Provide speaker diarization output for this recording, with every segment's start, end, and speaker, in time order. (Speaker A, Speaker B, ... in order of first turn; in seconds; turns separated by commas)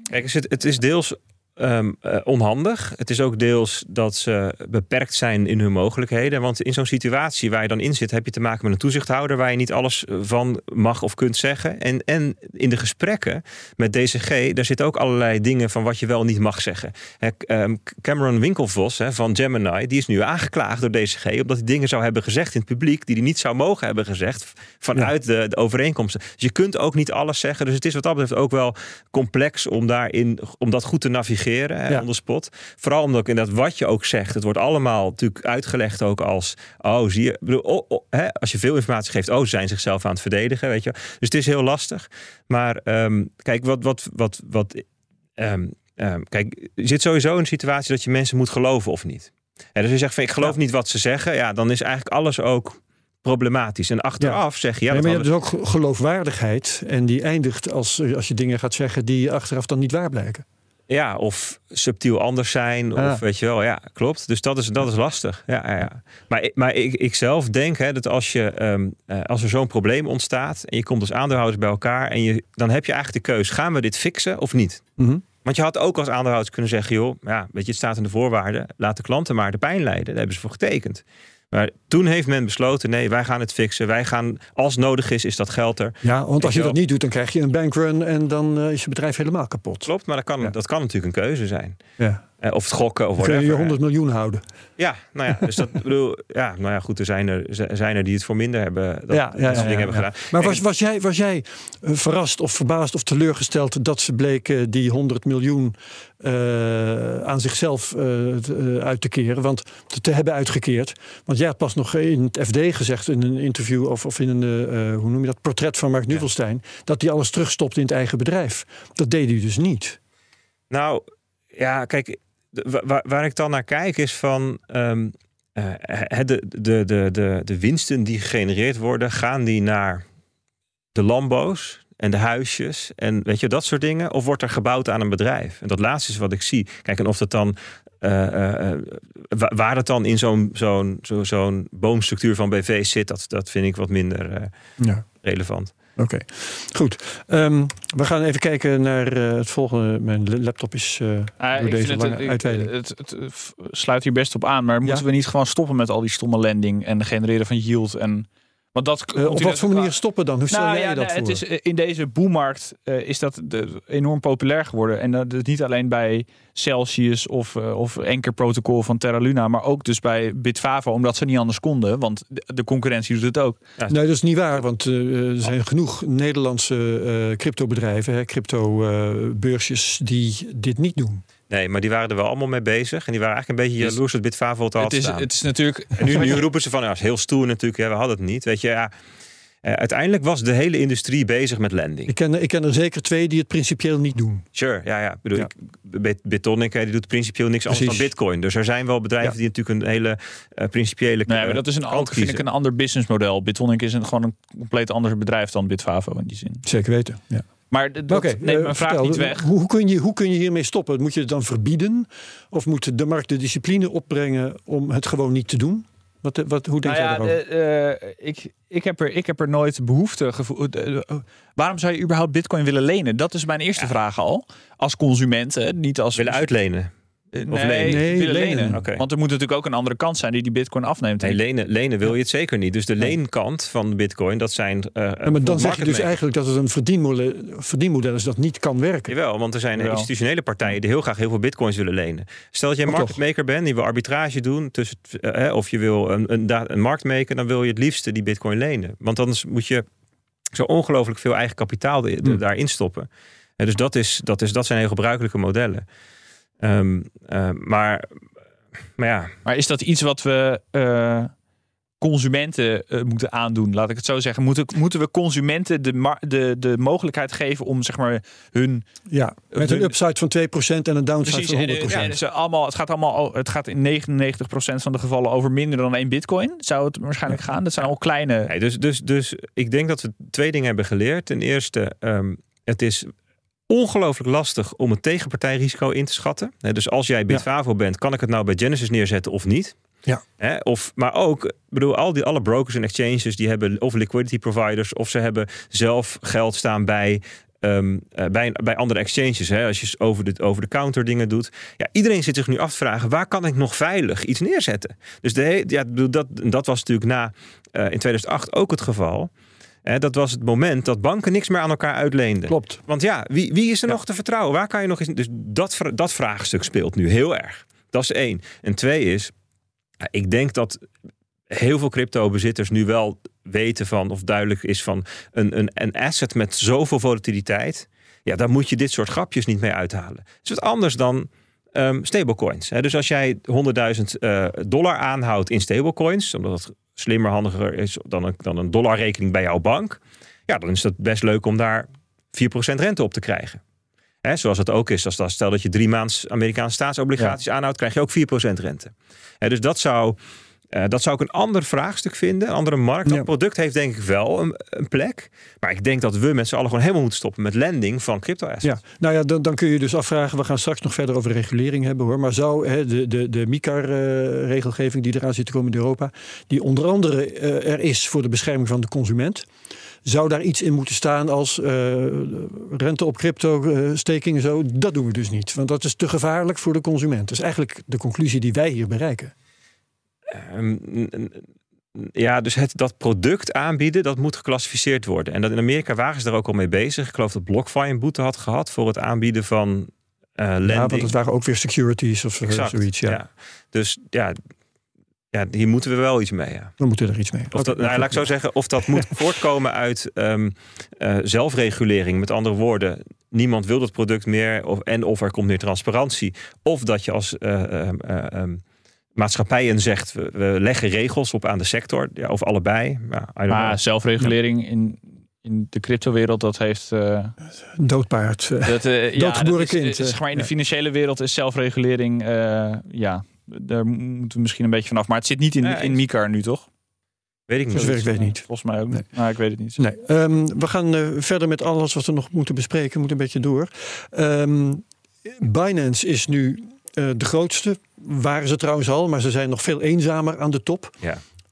Speaker A: 0.1-44.8, Speaker A: 45.4-55.3, Speaker B: 54.2-60.4, Speaker A: 60.9-74.8, Speaker B: 63.0-63.2, Speaker B: 75.0-75.2, Speaker A: 75.4-86.8, Speaker B: 86.0-89.9, Speaker A: 89.8-91.8, Speaker B: 92.0-92.2, Speaker A: 92.4-93.8, Speaker B: 93.2-94.4, Speaker A: 94.8-100.6, Speaker B: 99.1-120.0, Speaker A: 120.7-130.0, Speaker A: 130.9-144.5, Speaker B: 144.8-145.0, Speaker A: 145.1-145.7, Speaker B: 146.0-152.7, Speaker C: 151.4-160.0, Speaker B: 159.1-161.4, Speaker C: 160.5-173.6, Speaker B: 173.9-181.2, Speaker A: 181.5-185.3, Speaker C: 184.8-186.4, Speaker A: 186.0-188.9, Speaker A: 189.6-192.1, Speaker B: 192.1-194.4, Speaker A: 194.5-202.4, Speaker B: 197.7-198.1, Speaker C: 201.3-206.6, Speaker B: 206.7-207.4, Speaker C: 207.7-209.5, Speaker B: 208.1-217.4, Speaker C: 216.8-226.4, Speaker A: 226.2-226.9, Speaker C: 227.3-231.4, Speaker A: 227.5-228.0, Speaker B: 227.8-228.8, Speaker A: 228.7-229.0, Speaker A: 231.2-236.2, Speaker B: 235.2-239.1, Speaker A: 239.1-249.8, Speaker C: 239.8-240.1, Speaker B: 242.9-243.2, Speaker A: 250.5-255.8, Speaker A: 256.6-258.1, Speaker A: 259.0-259.3, Speaker C: 259.4-261.3, Speaker C: 262.0-268.9, Speaker B: 269.1-272.1, Speaker C: 269.5-269.9, Speaker C: 271.2-278.5, Speaker A: 278.5-283.1, Speaker A: 283.7-289.7, Speaker A: 290.4-309.3, Speaker A: 309.8-319.3, Speaker B: 312.5-312.8, Speaker A: 320.0-320.8, Speaker A: 321.5-343.6, Speaker A: 344.2-350.2, Speaker A: 350.7-358.8, Speaker B: 358.6-369.4, Speaker B: 370.0-379.3, Speaker A: 380.3-381.4, Speaker A: 381.9-391.1, Speaker B: 390.6-393.2, Speaker A: 392.4-394.4, Speaker A: 395.3-396.7, Speaker B: 396.8-398.2, Speaker A: 397.5-408.6, Speaker A: 409.1-414.3, Speaker C: 413.5-417.3, Speaker B: 417.8-420.5, Speaker C: 418.6-426.7, Speaker A: 425.6-426.0, Speaker A: 427.5-428.1, Speaker B: 427.7-429.0, Speaker C: 427.8-429.8, Speaker B: 429.8-440.9